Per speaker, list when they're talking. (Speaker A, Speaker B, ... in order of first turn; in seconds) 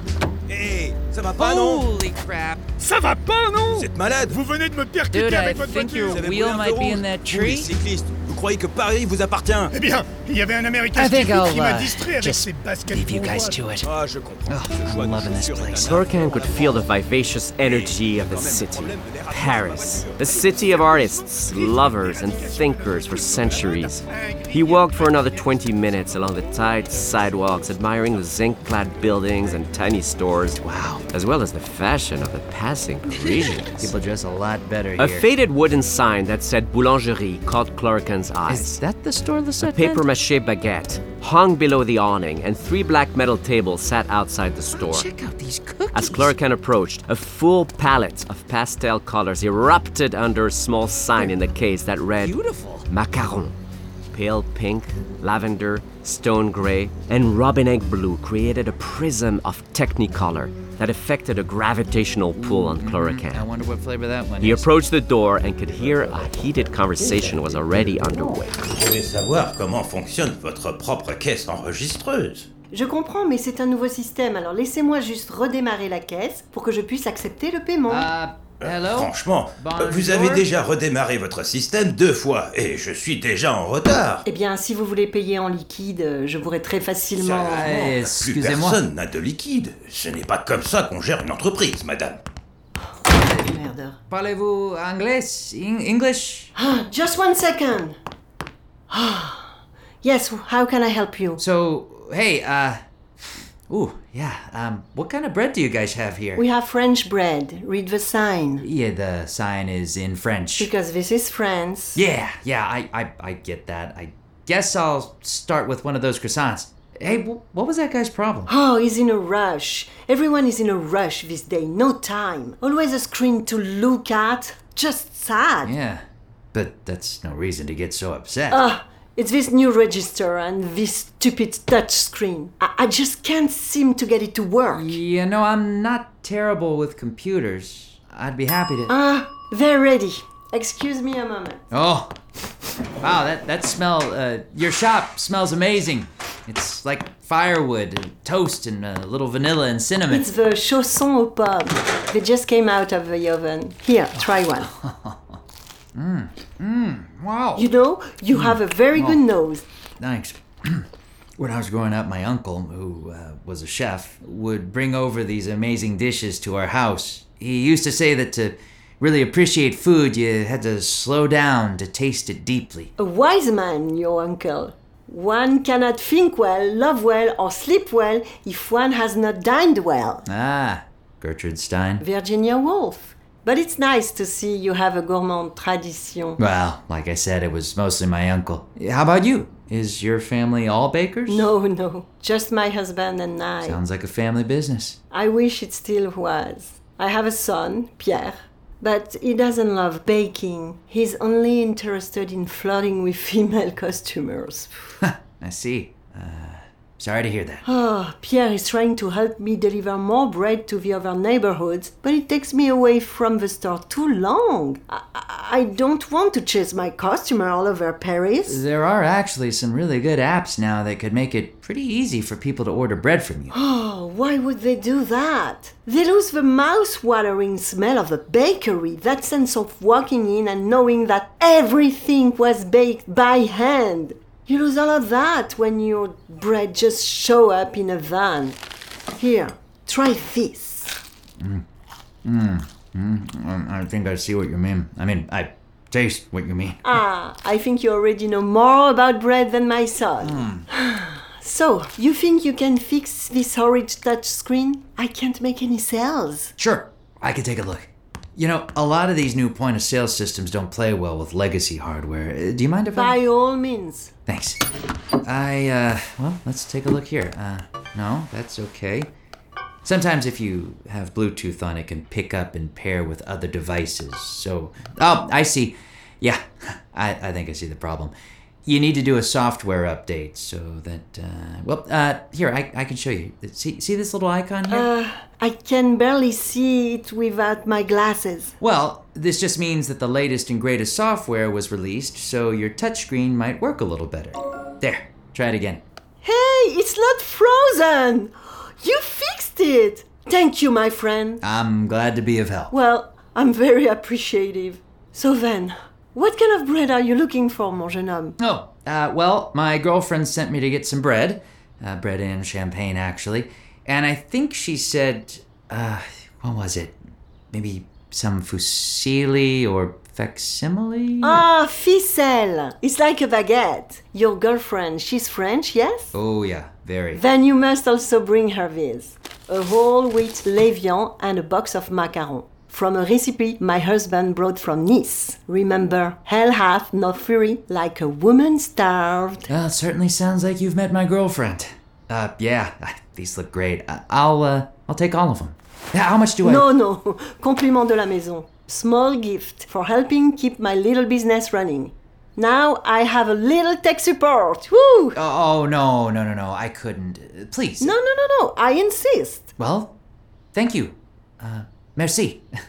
Speaker A: 0.5-1.7, 3.7-4.3, 6.2-9.7, 13.8-16.8, 17.8-20.1, 68.8-72.4, 78.9-84.2, 87.7-92.2
Speaker B: 1.3-2.6, 5.1-7.8, 10.9-13.9, 14.5-16.1, 30.6-31.0, 33.1-35.3, 38.5-40.1, 44.7-46.3, 52.2-52.9, 62.4-64.7, 65.7-68.3, 77.9-80.5, 87.4-88.8, 93.1-93.5, 94.1-96.5, 101.4-102.8, 103.7-106.4, 108.6-110.7, 111.9-118.5, 125.6-128.6, 134.7-138.9, 141.7-142.1, 143.0-150.3, 154.7-155.4, 155.9-157.7, 158.3-159.2, 160.0-160.9, 161.4-172.9, 180.3-182.0, 186.4-191.5, 193.6-195.0, 205.0-207.6, 218.5-223.5, 241.4-241.7, 242.2-246.9, 250.2-250.7, 256.6-263.2, 264.2-264.6, 265.2-269.1, 269.8-278.1, 278.6-284.9, 288.6-295.8, 301.4-302.7, 308.4-317.0, 317.5-321.4, 326.1-327.2, 339.5-346.6, 355.1-357.9, 359.6-359.9, 360.5-362.5
Speaker C: 2.8-6.2, 9.7-13.7, 20.5-25.6
Speaker D: 15.8-33.9, 35.0-38.8, 39.6-45.1, 45.9-52.4, 52.9-53.5, 54.1-63.5, 64.4-68.6
Speaker E: 72.7-78.1, 84.2-87.9, 93.3-94.0, 96.5-98.0, 98.9-99.5, 100.0-101.4, 106.3-108.7, 110.6-112.0, 118.5-125.7, 128.5-135.0, 138.9-141.6, 150.1-154.7, 157.6-159.6, 173.0-180.2, 182.0-186.4, 191.2-193.8, 195.1-204.7, 207.7-218.6, 223.5-238.6, 239.2-240.9, 246.8-256.5, 262.9-264.1, 284.7-288.5, 296.2-301.4, 302.7-308.4, 321.2-326.1, 327.1-339.5, 346.4-355.2, 357.8-359.5